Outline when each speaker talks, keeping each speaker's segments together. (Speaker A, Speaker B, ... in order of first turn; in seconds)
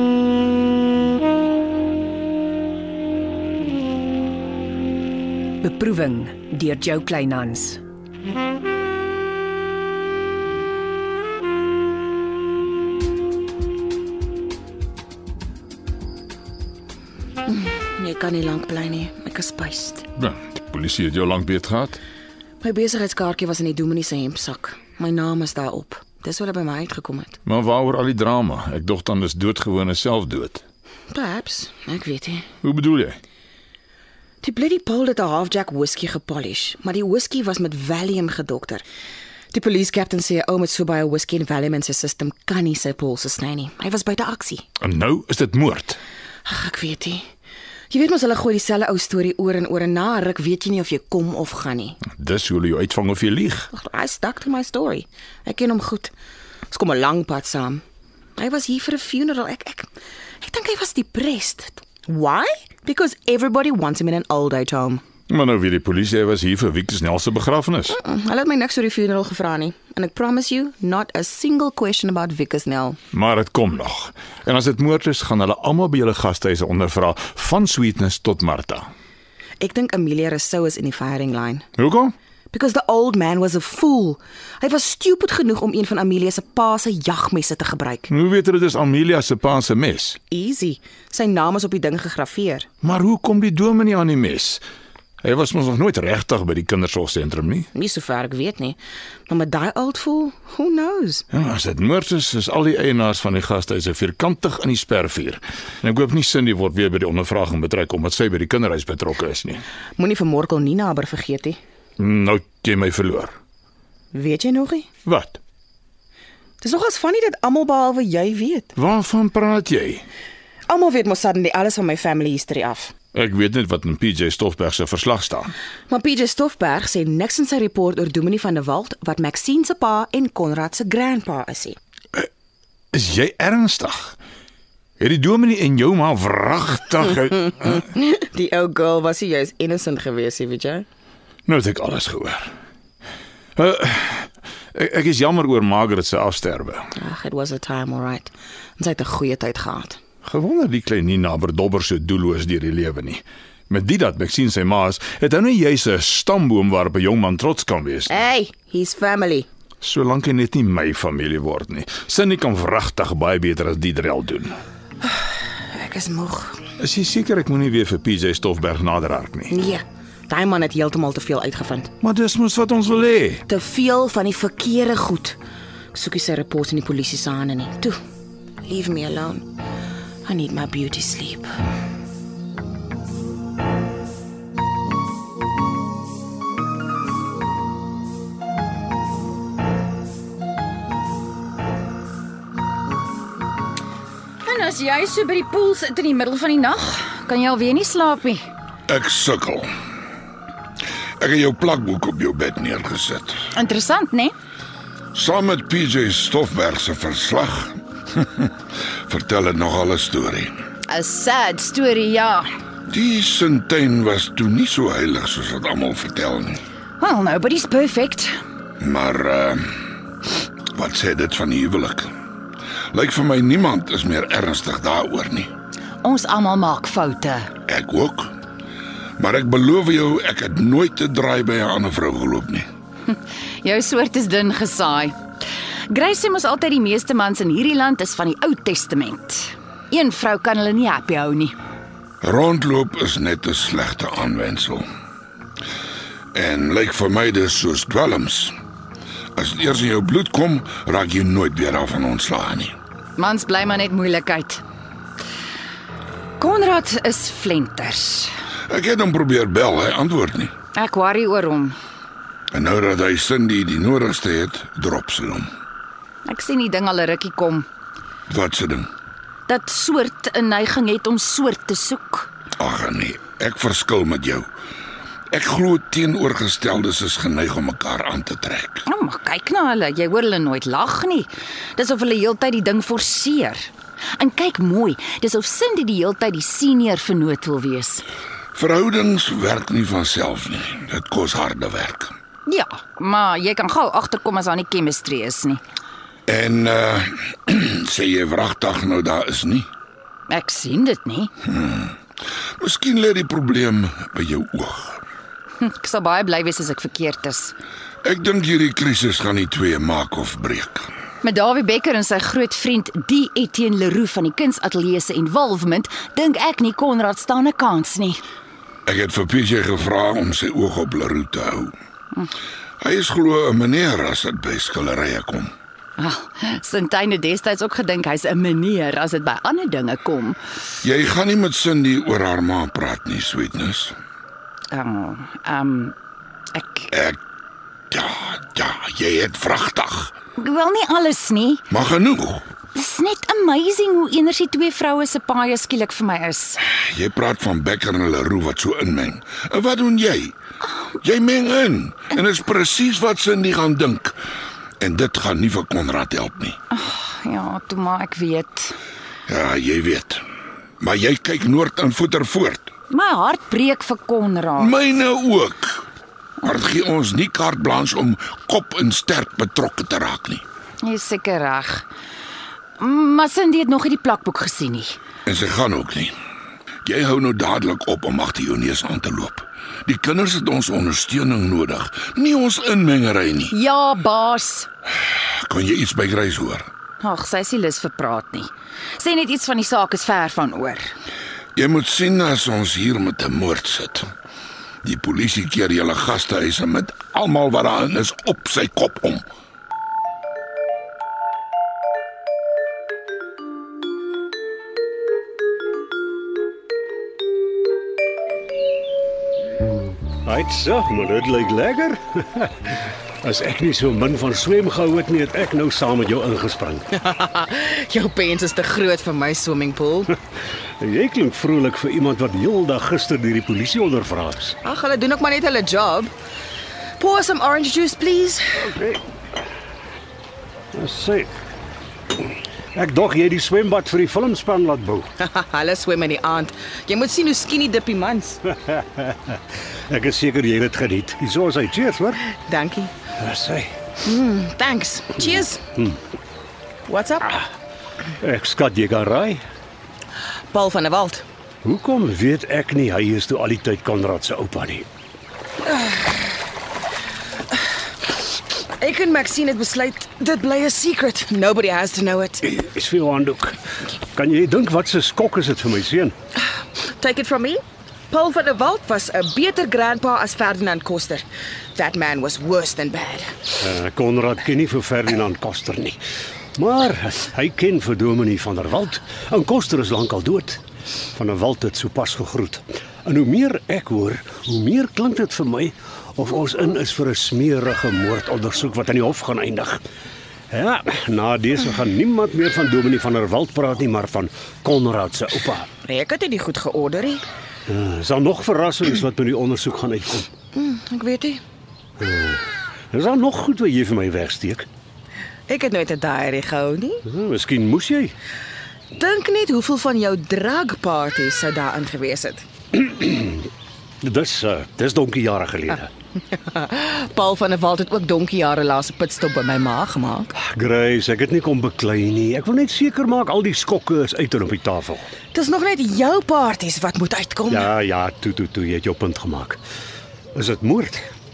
Speaker A: 5.6-7.8
Speaker B: 17.5-20.1, 22.6-27.4, 31.1-32.5, 34.4-38.8, 39.5-44.6, 46.5-47.2, 47.9-52.0, 53.7-56.1, 56.7-57.8, 58.4-59.9, 60.4-65.0, 67.9-73.0, 79.6-81.7, 82.5-88.1, 90.3-92.7, 97.7-101.2, 110.0-111.6, 114.1-114.9, 116.6-118.7, 120.7-122.9, 125.9-131.8, 137.8-140.9, 147.0-150.0, 158.1-159.5, 165.0-166.6, 169.5-171.9, 173.5-175.4, 175.9-178.0, 178.6-179.4, 180.2-181.6, 416.9-420.1, 424.6-426.1, 427.0-428.7, 435.2-438.5, 442.3-442.9, 444.0-445.6, 446.9-447.4, 450.5-451.2, 458.8-462.5, 467.0-473.4, 495.9-497.2, 500.5-501.4, 505.5-507.1, 508.9-512.5, 516.4-520.3, 525.3-527.7
Speaker C: 20.1-22.0, 27.5-30.6, 32.6-33.2, 44.8-46.0, 52.1-53.7, 65.3-68.0, 73.1-78.9, 81.8-82.1, 88.1-90.2, 92.8-94.6, 95.2-97.7, 101.3-109.6, 112.0-113.3, 115.0-115.4, 118.8-120.0, 123.1-125.5, 132.9-134.2, 135.0-137.8, 141.5-142.5, 143.6-146.9, 150.2-158.2, 159.8-164.6, 166.8-169.6, 172.0-173.4
Speaker D: 194.4-198.4, 203.5-204.3, 210.9-212.5, 217.0-218.3, 226.0-227.5, 233.6-235.2, 235.9-241.6, 253.2-254.6, 256.4-258.3, 260.8-261.8, 266.3-267.7, 269.5-272.3, 278.9-288.0, 292.5-295.6, 300.3-301.3, 305.6-307.6, 311.2-318.2, 326.0-330.4, 334.7-335.9, 336.5-336.9, 340.4-341.6, 342.7-346.6, 356.7-358.8, 362.9-364.7, 370.8-371.9, 372.8-375.0, 383.5-384.7, 387.0-390.9
Speaker E: 198.9-199.7, 201.2-203.3, 205.1-207.8, 209.1-210.5, 212.9-216.6, 218.8-219.7, 220.7-222.1, 222.9-225.5, 227.7-228.3, 229.2-232.7, 242.2-244.9, 246.3-248.5, 249.4-252.8, 258.7-260.5, 262.5-265.5, 268.3-268.9, 272.6-274.5, 275.3-278.9, 288.6-292.1, 296.3-299.7, 301.5-301.9, 302.6-305.0, 308.1-310.9, 318.9-321.7, 322.8-325.5, 330.8-333.9, 336.9-337.2, 337.9-340.1, 341.7-342.4, 346.7-350.4, 351.0-354.1, 354.8-356.6, 359.3-360.2, 360.8-362.7, 364.6-365.8, 366.4-370.4, 375.3-376.1, 376.9-383.5, 385.4-386.7, 391.6-394.1, 394.9-399.2
Speaker F: 410.2-412.7, 413.2-416.9, 420.8-424.6, 428.7-429.0, 430.7-431.3, 432.8-435.1, 438.7-439.4, 439.9-442.2, 443.2-443.7, 448.2-449.4, 451.6-454.9, 462.5-463.6, 464.1-466.1, 473.6-476.0, 476.6-480.6, 481.1-489.8, 490.5-495.7, 497.7-500.3, 502.0-504.7, 507.1-508.1, 512.8-513.5, 514.0-515.9, 520.4-525.0, 527.5-529.6, 530.4-531.1